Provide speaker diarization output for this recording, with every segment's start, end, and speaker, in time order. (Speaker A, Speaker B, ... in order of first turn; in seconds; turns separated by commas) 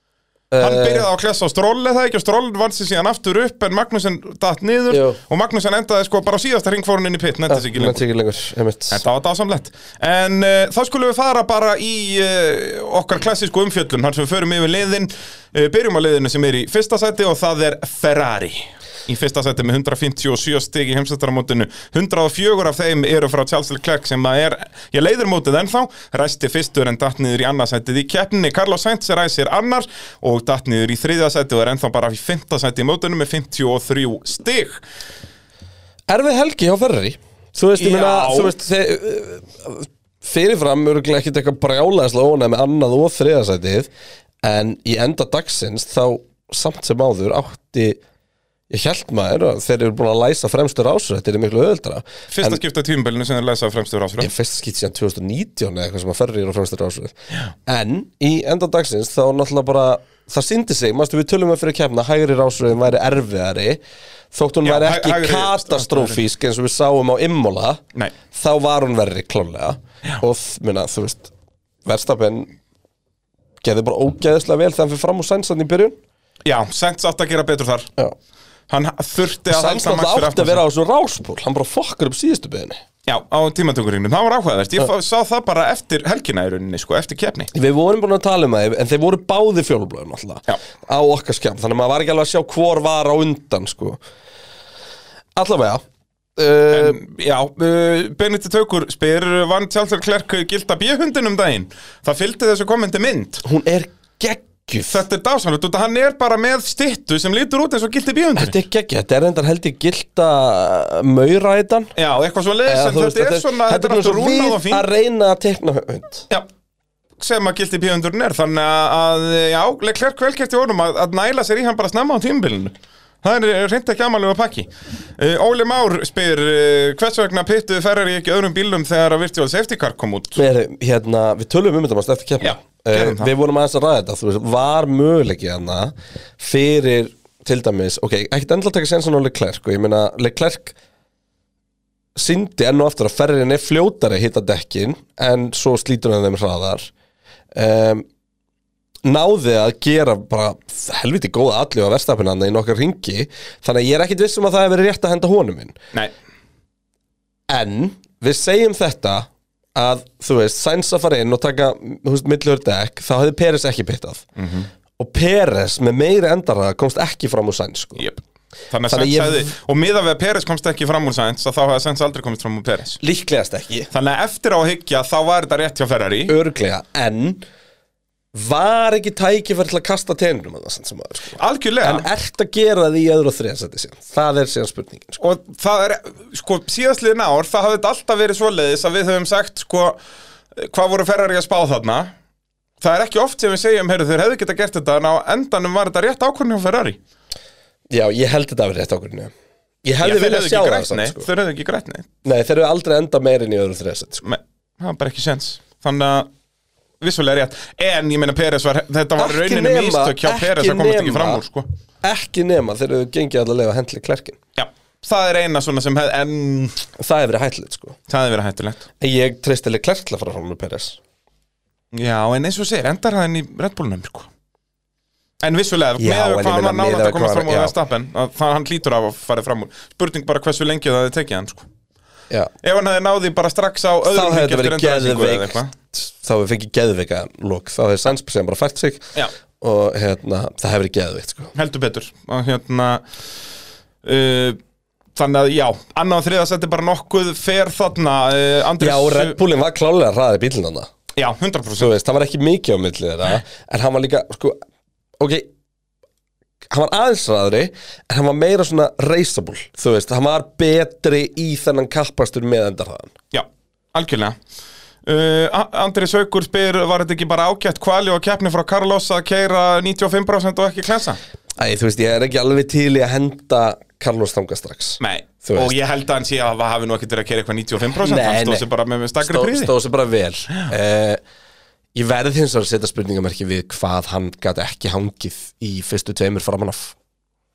Speaker A: 0.5-1.1, Speaker B: 0.6-8.0, Speaker A: 4.9-5.2, Speaker A: 7.5-9.0, Speaker B: 8.9-34.8, Speaker A: 36.1-43.9, Speaker B: 37.8-38.5, Speaker A: 44.4-48.0, Speaker A: 48.7-52.6, Speaker B: 52.3-54.3, Speaker A: 54.2-57.1, Speaker A: 57.6-63.8, Speaker A: 64.3-71.3, Speaker B: 64.6-66.2, Speaker A: 71.8-72.5, Speaker A: 73.6-76.0, Speaker B: 76.4-77.9, Speaker B: 78.7-80.6, Speaker A: 79.5-82.8, Speaker B: 83.0-87.5, Speaker A: 87.5-94.0, Speaker A: 95.3-95.8, Speaker A: 96.4-97.0, Speaker B: 96.7-103.4, Speaker A: 103.4-105.0, Speaker B: 104.9-108.5, Speaker A: 108.3-111.9, Speaker B: 112.0-114.8, Speaker A: 112.7-116.3, Speaker B: 117.2-130.4, Speaker A: 130.3-140.7, Speaker B: 132.4-133.3, Speaker A: 142.2-146.9, Speaker A: 147.5-148.0, Speaker A: 149.0-155.8, Speaker A: 157.5-164.3, Speaker B: 164.4-164.7, Speaker A: 165.0-168.1, Speaker B: 168.0-173.0, Speaker A: 168.9-169.5, Speaker A: 173.0-173.9, Speaker B: 173.9-176.3, Speaker A: 176.3-177.4, Speaker A: 178.3-185.2, Speaker B: 181.4-182.1, Speaker B: 185.2-190.0, Speaker B: 190.5-192.1, Speaker B: 192.8-197.0, Speaker A: 197.9-199.3, Speaker A: 199.8-201.3, Speaker B: 200.0-202.1, Speaker A: 202.2-204.2, Speaker B: 204.2-206.3, Speaker B: 207.0-211.7, Speaker A: 209.2-211.4, Speaker A: 212.0-214.4, Speaker B: 214.6-216.8, Speaker A: 217.0-218.0, Speaker B: 218.1-218.8, Speaker A: 219.0-221.0, Speaker B: 221.9-224.3, Speaker B: 225.4-231.7, Speaker A: 226.0-227.7, Speaker B: 232.6-235.7, Speaker A: 234.1-241.5, Speaker B: 241.5-243.0, Speaker B: 244.0-244.6, Speaker B: 245.1-249.3, Speaker A: 248.8-250.9, Speaker B: 251.1-251.9, Speaker A: 251.8-254.6, Speaker A: 255.2-255.5, Speaker A: 256.7-263.1, Speaker B: 263.3-264.4, Speaker B: 265.0-271.2, Speaker A: 271.6-275.7, Speaker B: 275.0-279.7, Speaker A: 278.0-278.7, Speaker A: 279.2-281.2, Speaker A: 281.9-286.9